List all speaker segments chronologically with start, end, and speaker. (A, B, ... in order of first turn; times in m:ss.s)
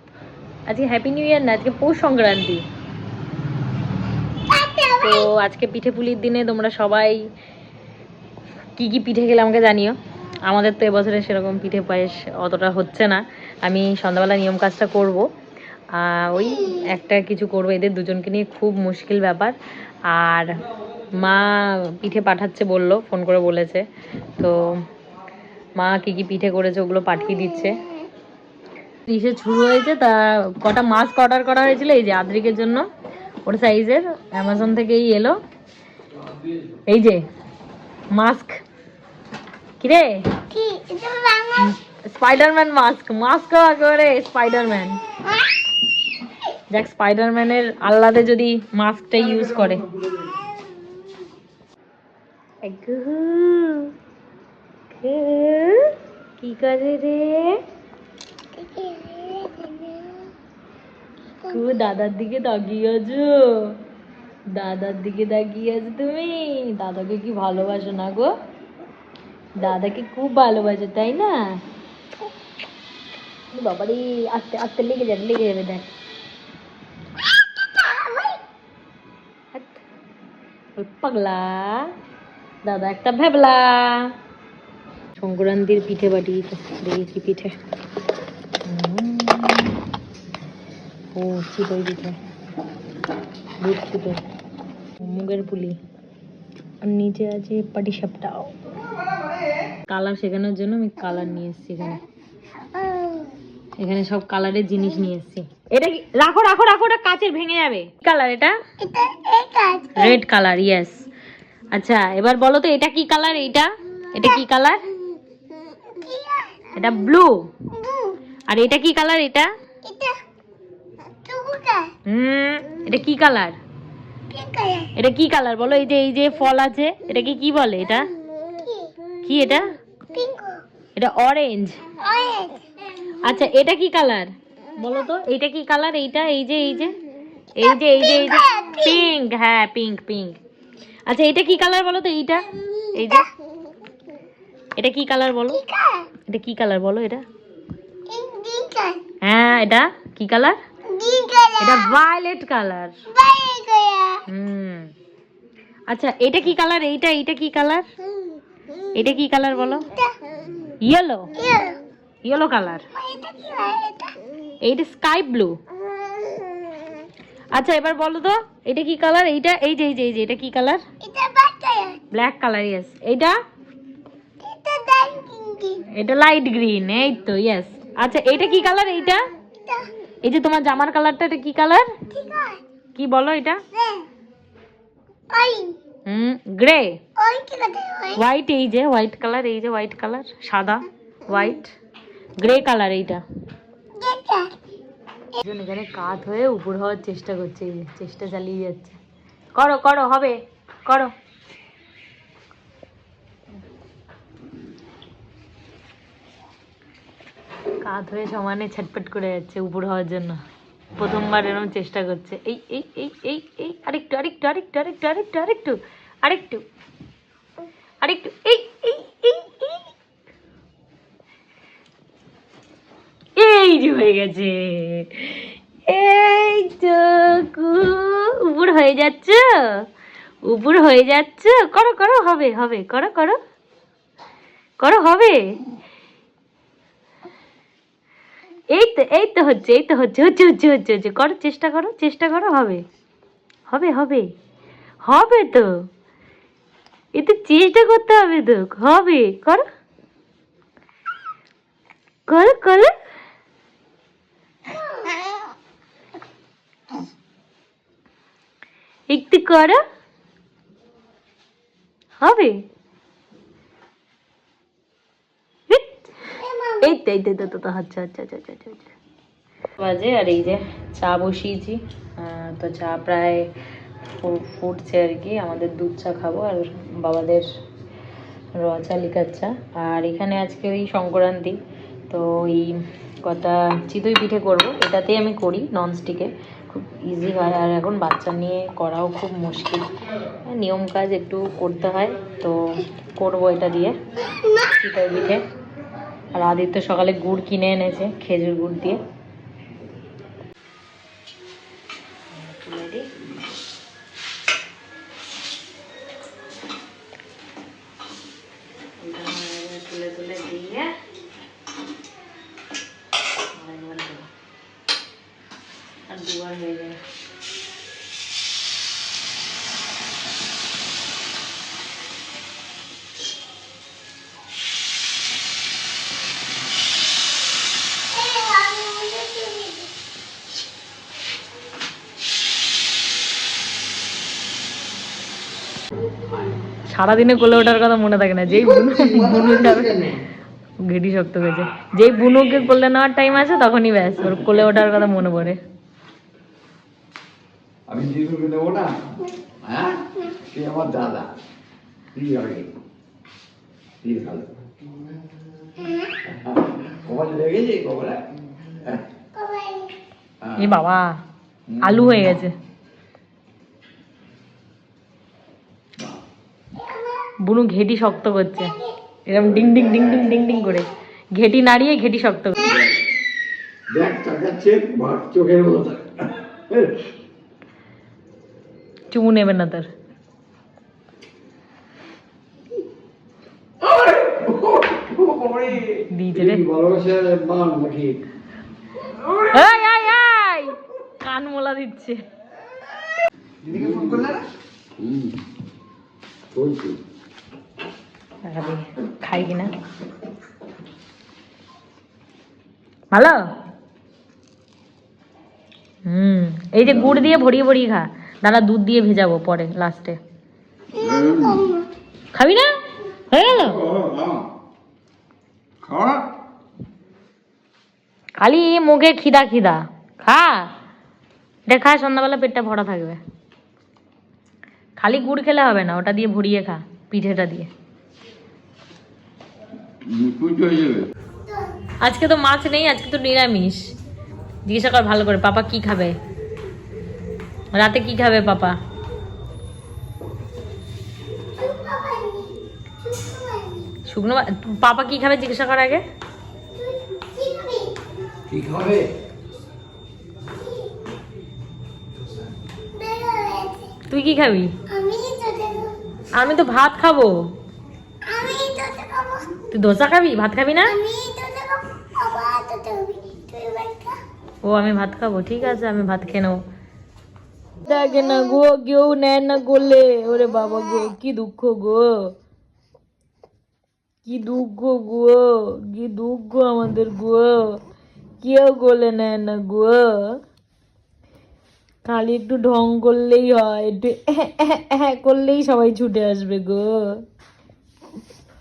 0:00.7-0:02.6 A
0:04.5-0:05.3 B
0:05.0-0:07.2 A
0:08.8-0:15.2 A
0:15.9-0:19.5 A
0:20.1-0:20.5 A
0:21.2-0:23.8 A
0:24.4-0:24.8 A
0:25.8-0:27.7 A
0:29.0-0:32.9 A
0:33.4-0:35.4 A
0:36.9-0:37.2 A
0:38.1-0:38.6 A
0:39.8-0:40.3 A
0:40.5-0:41.7 B
0:41.6-0:45.0 A
0:46.7-0:49.9 A
0:52.6-0:53.9 A
0:54.9-0:57.6 A
0:58.5-1:00.2 B
1:01.4-1:03.8 A
1:04.5-1:08.3 A
1:09.6-1:11.4 A
1:13.5-1:15.9 A
1:17.6-1:18.4 B
1:19.5-1:19.8 A
1:20.8-1:21.9 A
1:22.6-1:24.1 A
1:25.2-1:27.5 A
1:28.6-1:29.8 A
1:31.1-1:32.2 A
1:33.6-1:34.2 A
1:35.0-1:35.8 A
1:36.8-1:38.6 A
1:39.9-1:42.0 A
1:42.8-1:43.3 B
1:43.8-1:48.6 A
1:48.8-1:50.2 B
1:50.0-1:51.0 A
1:51.7-1:54.8 A
1:55.8-1:56.7 B
1:56.7-1:57.5 A
1:57.7-1:58.2 B
1:58.5-1:59.5 A
1:59.8-2:00.2 B
2:01.1-2:01.9 B
2:02.1-2:03.6 A
2:04.3-2:04.9 B
2:05.0-2:08.1 A
2:08.4-2:08.9 B
2:09.2-2:09.7 A
2:10.1-2:10.6 B
2:11.0-2:11.8 A
2:12.0-2:12.7 B
2:13.0-2:16.9 A
2:17.6-2:20.4 A
2:17.6-2:19.0 B
2:21.1-2:23.3 A
2:22.6-2:23.2 B
2:24.8-2:25.6 A
2:25.6-2:26.1 B
2:26.3-2:27.2 A
2:28.1-2:29.0 B
2:29.2-2:30.6 A
2:30.9-2:31.9 B
2:31.6-2:33.0 A
2:33.1-2:34.2 B
2:34.3-2:34.9 A
2:35.9-2:37.9 A
2:38.9-2:39.9 A
2:39.9-2:40.2 B
2:40.8-2:41.3 A
2:41.4-2:41.8 B
2:42.2-2:42.8 A
2:42.9-2:44.2 B
2:44.6-2:45.6 A
2:46.1-2:46.8 B
2:47.5-2:50.8 A
2:51.0-2:52.0 B
2:52.1-2:53.4 A
2:54.4-2:55.8 B
2:55.9-2:59.2 A
3:00.2-3:02.0 A
3:02.1-3:02.6 B
3:03.0-3:03.6 A
3:03.7-3:04.1 B
3:05.3-3:05.8 B
3:06.0-3:07.0 A
3:07.2-3:08.2 B
3:08.1-3:11.7 A
3:12.4-3:13.2 A
3:14.0-3:14.5 B
3:15.4-3:19.0 A
3:19.6-3:21.1 A
3:27.8-3:30.4 A
3:31.0-3:36.6 A
3:38.0-3:39.9 A
3:43.4-3:49.8 A
3:50.4-3:53.4 A
3:54.8-3:55.5 A
3:58.7-4:02.8 A
4:03.7-4:04.3 A
4:05.0-4:05.8 A
4:07.1-4:09.7 A
4:12.3-4:13.0 A
4:19.1-4:19.8 A
4:22.2-4:22.6 A
4:25.7-4:28.9 A
4:26.4-4:26.8 B
4:29.8-4:33.5 A
4:34.1-4:37.5 A
4:38.6-4:41.6 A
4:42.1-4:49.9 A
4:50.4-4:54.0 A
4:54.6-4:55.4 A
4:56.3-4:59.0 A
5:02.3-5:03.1 A
5:09.0-5:10.9 A
5:13.5-5:14.3 A
5:16.1-5:17.0 A
5:28.1-5:29.9 B
5:36.8-5:40.2 A
5:40.8-5:45.6 A
5:47.9-5:49.0 C
5:49.6-5:51.3 C
5:52.1-5:52.7 C
5:54.0-5:54.7 C
5:56.2-5:59.0 C
5:59.3-6:00.0 B
6:00.5-6:01.1 A
6:01.7-6:02.0 C
6:01.8-6:02.5 A
6:06.8-6:07.3 B
6:07.4-6:12.8 A
6:12.6-6:13.0 C
6:13.9-6:17.1 C
6:19.1-6:19.9 A
6:23.8-6:28.2 C
6:25.9-6:26.6 A
6:29.3-6:32.2 A
6:33.6-6:34.4 C
6:35.0-6:35.3 C
6:36.5-6:37.0 C
6:38.4-6:39.7 A
6:43.1-6:43.4 A
6:46.0-6:50.2 A
6:50.9-6:51.8 B
6:51.0-6:51.4 C
6:52.3-6:52.7 A
6:53.3-6:54.0 A
6:54.0-6:54.4 C
6:55.9-6:56.2 C
6:58.4-7:00.7 A
7:01.7-7:03.2 A
7:05.0-7:07.7 A
7:10.0-7:11.1 C
7:12.0-7:13.9 A
7:14.6-7:16.2 A
7:17.7-7:18.7 A
7:21.6-7:23.9 B
7:24.1-7:26.0 A
7:26.7-7:28.0 B
7:28.5-7:29.1 C
7:30.6-7:30.9 B
7:32.9-7:34.0 B
7:34.1-7:34.8 A
7:34.8-7:36.0 B
7:36.3-7:37.5 A
7:38.2-7:39.6 B
7:39.7-7:41.0 A
7:40.8-7:44.2 B
7:44.6-7:46.6 A
7:47.8-7:52.3 A
7:54.2-7:57.8 A
7:58.4-8:00.4 A
8:02.0-8:07.2 A